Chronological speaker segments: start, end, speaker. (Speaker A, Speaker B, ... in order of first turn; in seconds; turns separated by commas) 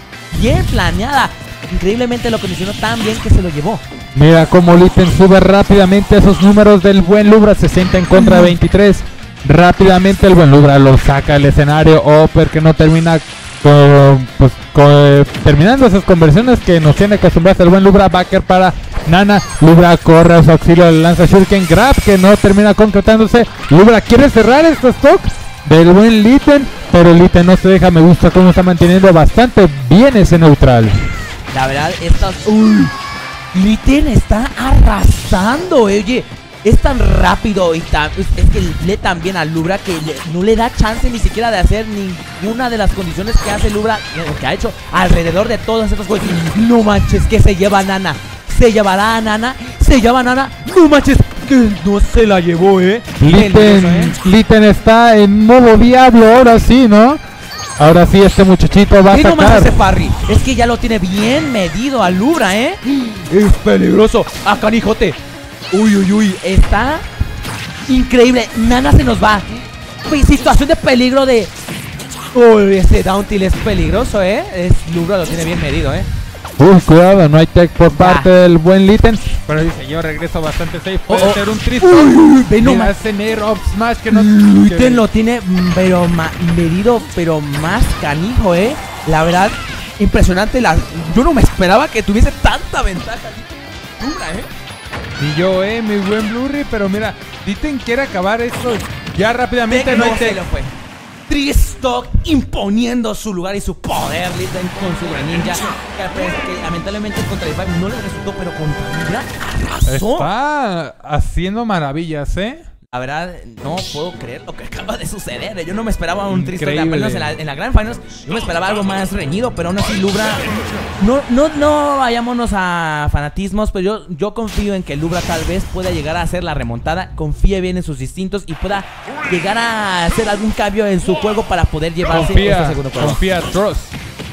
Speaker A: 0.3-3.8, Speaker B: 4.1-31.1, Speaker A: 8.1-8.6, Speaker A: 31.5-32.9, Speaker A: 33.5-54.1, Speaker B: 53.2-57.2, Speaker B: 57.8-59.7, Speaker A: 59.1-65.2, Speaker A: 65.7-67.0, Speaker A: 67.9-69.5, Speaker A: 70.0-71.5, Speaker A: 72.3-76.1, Speaker B: 76.6-85.0, Speaker A: 77.9-78.3, Speaker A: 81.1-82.9, Speaker A: 84.1-94.5, Speaker B: 95.2-100.4, Speaker A: 99.7-100.7, Speaker A: 101.3-110.3, Speaker B: 109.9-112.6, Speaker A: 112.9-133.2, Speaker B: 116.3-117.3, Speaker B: 132.1-133.9